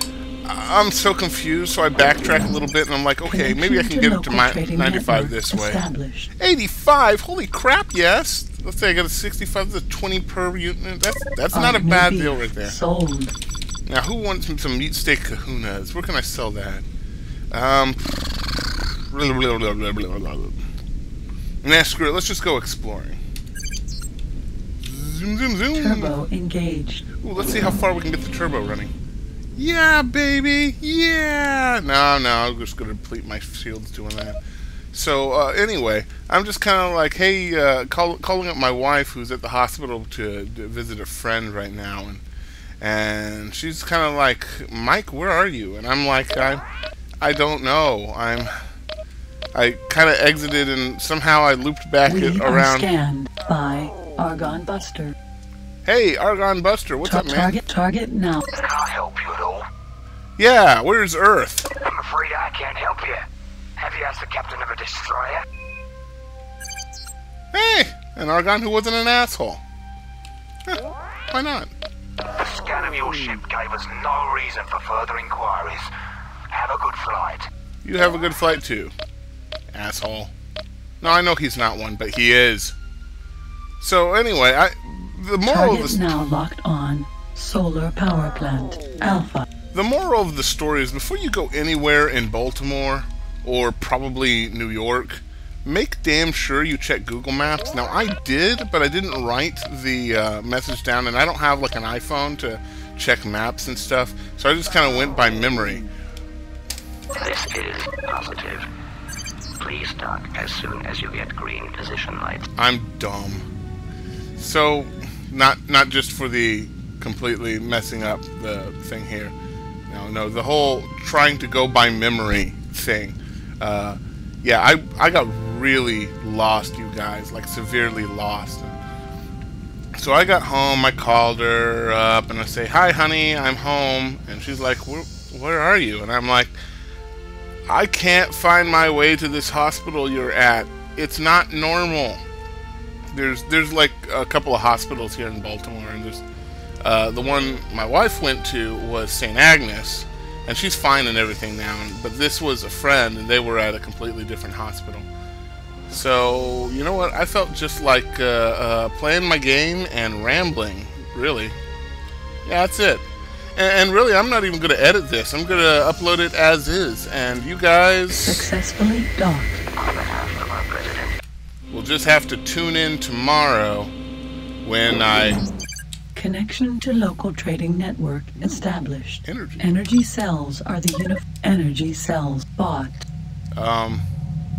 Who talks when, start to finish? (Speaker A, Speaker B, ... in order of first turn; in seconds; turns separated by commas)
Speaker A: 0.5-5.8, Speaker B: 3.2-6.3, Speaker A: 6.4-12.8, Speaker B: 11.5-13.3, Speaker A: 13.9-16.9, Speaker A: 17.5-18.4, Speaker A: 19.1-20.6, Speaker A: 21.6-23.2, Speaker A: 24.8-26.2, Speaker B: 25.7-27.1, Speaker A: 27.2-28.9, Speaker A: 29.6-34.4, Speaker A: 34.9-42.2, Speaker A: 42.8-46.6, Speaker A: 47.2-48.5, Speaker A: 49.5-52.9, Speaker B: 52.1-55.1, Speaker A: 55.9-57.5, Speaker B: 57.0-58.5, Speaker C: 58.6-59.7, Speaker A: 60.4-61.7, Speaker C: 61.8-65.5, Speaker A: 67.5-69.6, Speaker A: 70.7-71.7, Speaker C: 72.3-75.9, Speaker C: 76.5-77.5, Speaker A: 77.8-78.9, Speaker A: 79.7-80.3, Speaker A: 81.0-82.8, Speaker A: 83.8-86.1, Speaker B: 85.5-89.5, Speaker A: 89.7-105.9, Speaker D: 107.2-108.7, Speaker D: 109.6-112.4, Speaker A: 112.6-113.5, Speaker A: 114.4-119.3, Speaker A: 119.9-128.8, Speaker A: 129.9-136.6, Speaker A: 137.7-142.2, Speaker A: 143.1-146.2, Speaker A: 146.8-155.1, Speaker A: 155.9-161.6, Speaker A: 162.4-163.1, Speaker A: 163.6-168.5, Speaker B: 168.1-169.6, Speaker D: 169.7-171.2, Speaker A: 171.7-173.9, Speaker A: 174.6-175.4, Speaker B: 176.2-183.1, Speaker A: 178.4-178.7, Speaker A: 179.2-179.7, Speaker A: 183.6-184.1